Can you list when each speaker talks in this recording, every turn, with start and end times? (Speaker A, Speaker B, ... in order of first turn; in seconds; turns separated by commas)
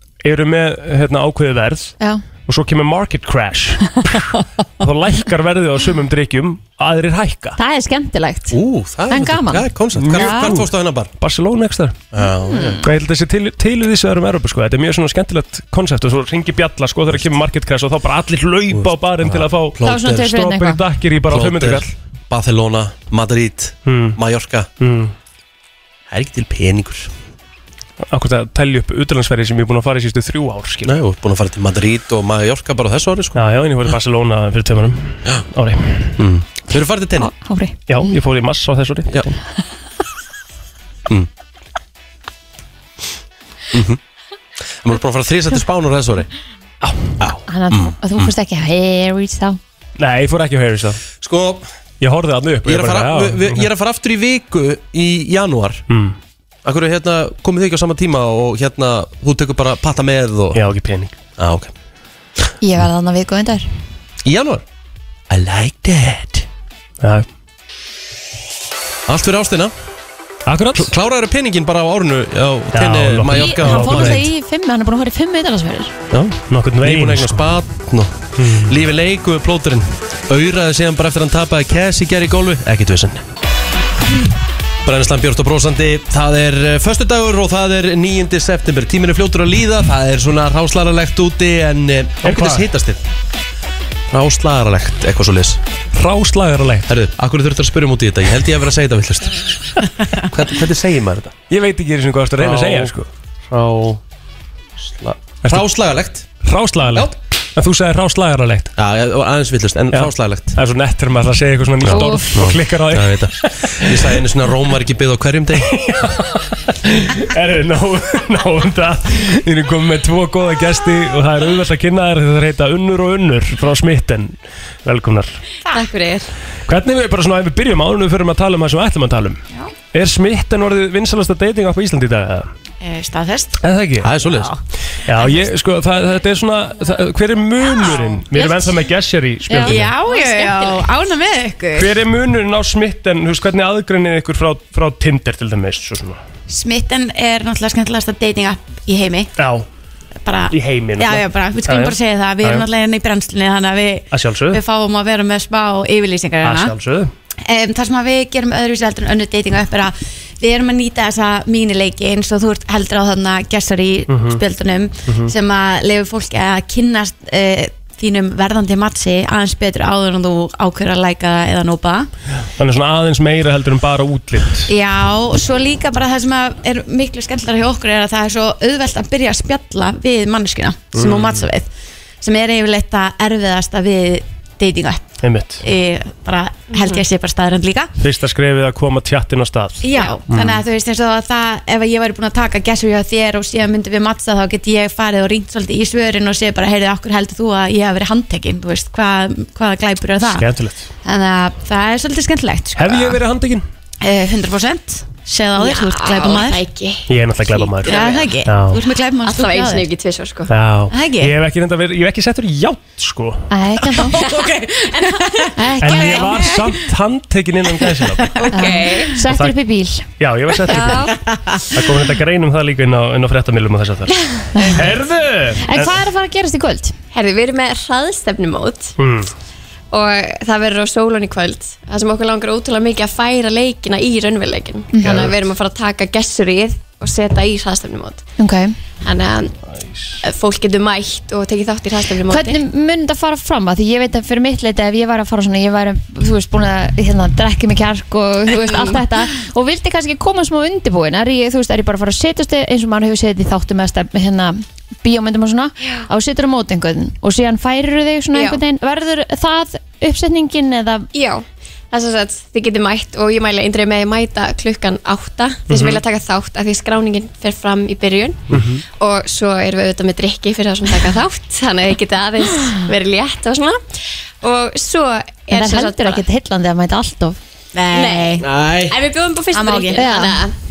Speaker A: 0.2-1.9, Speaker A: 2.5-4.3, Speaker A: 4.8-7.6, Speaker B: 7.6-10.5, Speaker C: 8.5-11.1, Speaker A: 9.9-12.1, Speaker C: 12.1-12.8, Speaker B: 12.2-12.8, Speaker A: 12.8-21.9, Speaker C: 18.7-20.4, Speaker B: 19.8-20.8, Speaker C: 21.3-24.7, Speaker A: 23.9-24.2, Speaker A: 24.8-25.1, Speaker C: 26.1-27.1, Speaker A: 28.1-30.9, Speaker C: 30.8-33.4, Speaker A: 33.3-36.2, Speaker C: 36.2-37.3, Speaker B: 37.2-37.8, Speaker A: 37.9-39.4, Speaker C: 43.7-44.0, Speaker C: 44.8-46.3, Speaker A: 46.8-47.1, Speaker C: 47.2-48.3, Speaker B: 47.5-49.6, Speaker A: 50.0-51.0, Speaker C: 51.2-51.7, Speaker A: 52.0-53.7, Speaker C: 52.6-55.9, Speaker A: 55.9-56.1, Speaker C: 56.6-60.6, Speaker A: 60.5-61.1, Speaker C: 61.4-61.7, Speaker B: 62.6-63.6, Speaker C: 64.2-64.6, Speaker C: 65.3-66.5, Speaker C: 69.1-69.7, Speaker A: 70.5-70.9, Speaker C: 70.7-74.2, Speaker A: 72.7-74.2, Speaker B: 73.3-75.9, Speaker C: 76.1-83.2, Speaker A: 76.5-77.5, Speaker A: 78.4-78.8, Speaker C: 84.8-93.0, Speaker A: 92.2-92.7, Speaker C: 94.1-95.6, Speaker A: 95.9-96.9, Speaker C: 96.9-99.5, Speaker C: 100.2-101.3, Speaker A: 101.5-103.1, Speaker C: 102.4-102.9, Speaker C: 103.5-104.0, Speaker C: 104.8-106.3, Speaker A: 106.4-108.7, Speaker C: 108.8-110.6, Speaker A: 109.9-114.0, Speaker C: 111.8-115.8, Speaker B: 111.9-112.4, Speaker A: 115.6-124.3, Speaker A: 124.8-125.4, Speaker D: 125.7-126.3, Speaker A: 126.7-129.4, Speaker A: 129.9-132.5, Speaker E: 132.8-133.6, Speaker A: 133.6-134.2, Speaker C: 134.0-134.5, Speaker E: 134.2-134.6, Speaker A: 135.1-139.9, Speaker E: 137.7-138.8, Speaker E: 139.5-141.9, Speaker B: 139.5-139.8, Speaker A: 141.7-146.2, Speaker E: 146.5-149.3, Speaker A: 149.4-149.7, Speaker E: 150.2-156.7, Speaker A: 150.5-152.7, Speaker A: 154.1-154.6, Speaker A: 156.4-157.1, Speaker E: 157.4-172.1, Speaker A: 164.1-164.4, Speaker A: 165.1-165.3, Speaker A: 172.6-174.7, Speaker E: 174.7-181.7, Speaker A: 180.9-181.5, Speaker E: 182.2-187.9, Speaker A: 185.2-185.6, Speaker A: 188.0-190.5, Speaker E: 189.8-200.5, Speaker A: 200.3-200.9, Speaker E: 201.0-203.2, Speaker A: 202.7-203.6, Speaker E: 204.0-206.7, Speaker D: 205.6-208.3, Speaker A: 207.1-208.8, Speaker E: 207.8-209.9, Speaker D: 209.2-210.5, Speaker A: 210.5-213.5, Speaker E: 210.9-211.3, Speaker B: 213.5-214.2, Speaker E: 213.9-216.6, Speaker D: 214.2-216.4, Speaker B: 215.6-216.6, Speaker A: 215.8-218.5, Speaker E: 217.8-218.9, Speaker D: 218.4-219.1, Speaker B: 218.5-220.0, Speaker A: 219.2-219.5, Speaker A: 220.2-221.1, Speaker B: 220.7-221.1, Speaker A: 221.7-224.1, Speaker B: 224.5-224.9, Speaker A: 224.7-225.9, Speaker B: 225.6-226.9, Speaker D: 227.1-228.9, Speaker A: 229.0-229.3, Speaker D: 229.9-238.3, Speaker B: 234.9-235.3, Speaker A: 235.0-235.3, Speaker B: 238.4-238.7, Speaker D: 239.0-239.5, Speaker D: 240.2-242.6, Speaker B: 242.3-261.1, Speaker D: 258.3-258.6, Speaker D: 261.1-268.4, Speaker A: 265.7-266.0, Speaker A: 268.5-268.8, Speaker D: 269.0-273.8, Speaker D: 274.4-276.2, Speaker B: 275.5-277.4, Speaker E: 277.7-278.4, Speaker D: 277.9-280.5, Speaker C: 278.4-278.9, Speaker E: 279.5-280.1, Speaker B: 279.9-280.4